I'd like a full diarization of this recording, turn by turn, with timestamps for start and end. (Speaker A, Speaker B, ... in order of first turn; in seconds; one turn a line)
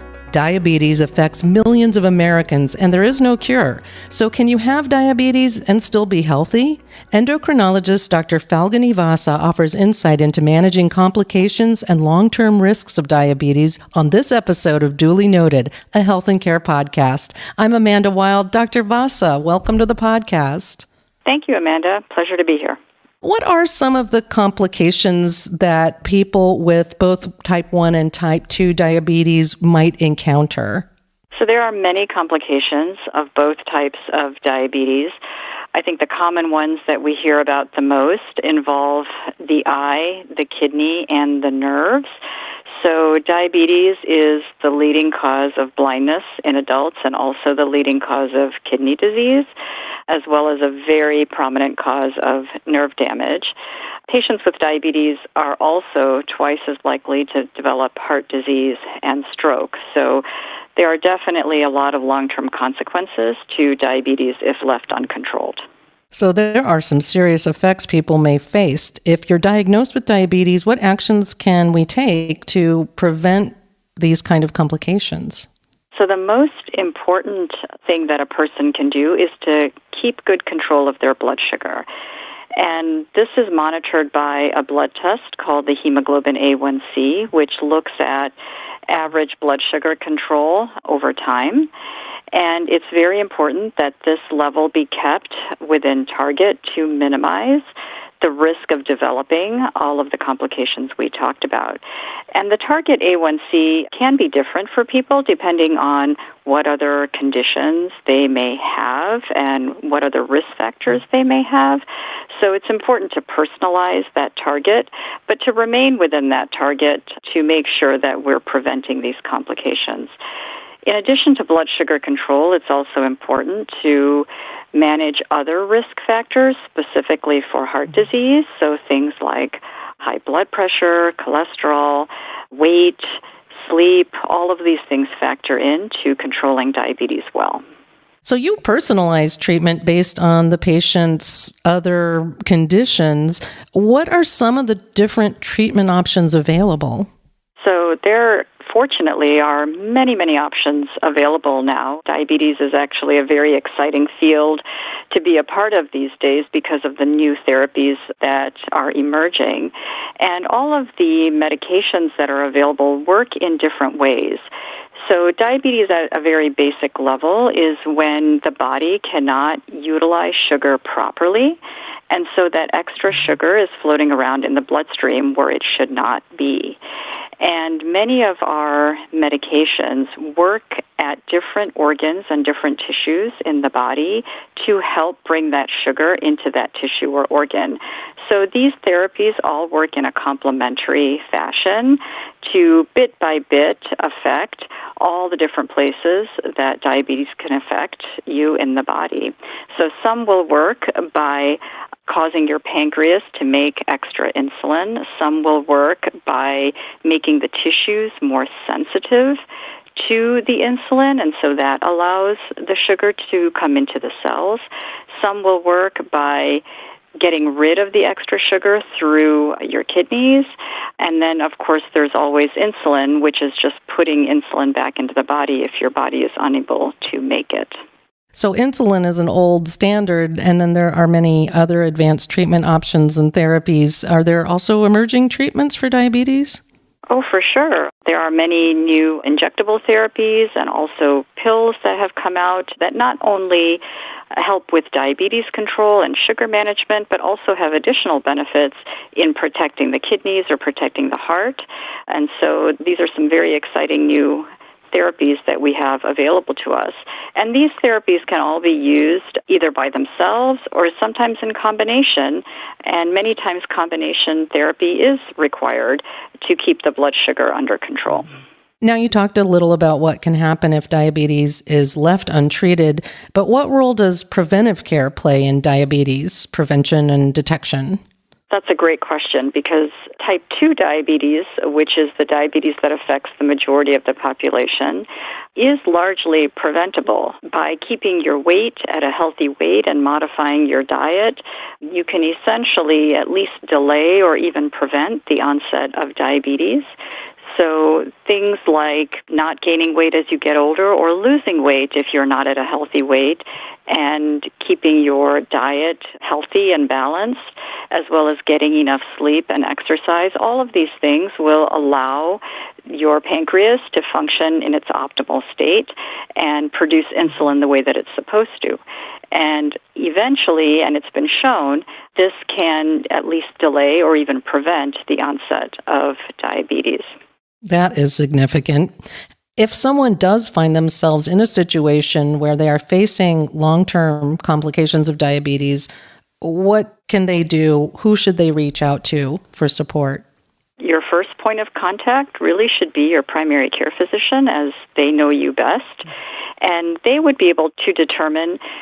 Speaker A: 0.3-20.9
Speaker B: 21.2-22.8
Speaker A: 23.2-30.9
Speaker B: 31.3-35.1
Speaker B: 35.7-42.1
Speaker B: 42.7-49.5
Speaker B: 50.1-53.5
Speaker B: 54.1-60.2
Speaker B: 60.8-65.6
Speaker A: 66.1-75.5
Speaker B: 75.9-81.9
Speaker B: 82.6-88.3
Speaker B: 88.9-91.7
Speaker B: 92.3-97.7
Speaker B: 98.2-101.8
Speaker B: 102.3-120.2
Speaker B: 120.9-133.0
Speaker B: 133.5-137.6
Speaker A: 138.2-147.1
Speaker B: 147.6-164.5
Speaker B: 165.0-176.8
Speaker B: 177.4-209.4
Speaker B: 210.0-216.6
Speaker B: 217.2-227.8
Speaker A: 228.3-236.6
Speaker B: 237.1-243.8
Speaker B: 244.3-268.3
Speaker A: 268.8-278.0
Speaker B: 278.5-296.9
Speaker B: 297.5-318.8
Speaker B: 319.3-327.1
Speaker A: 327.6-328.9
Speaker A: 329.6-335.9
Speaker A: 336.4-340.2
Speaker B: 340.8-346.1
Speaker B: 346.6-348.6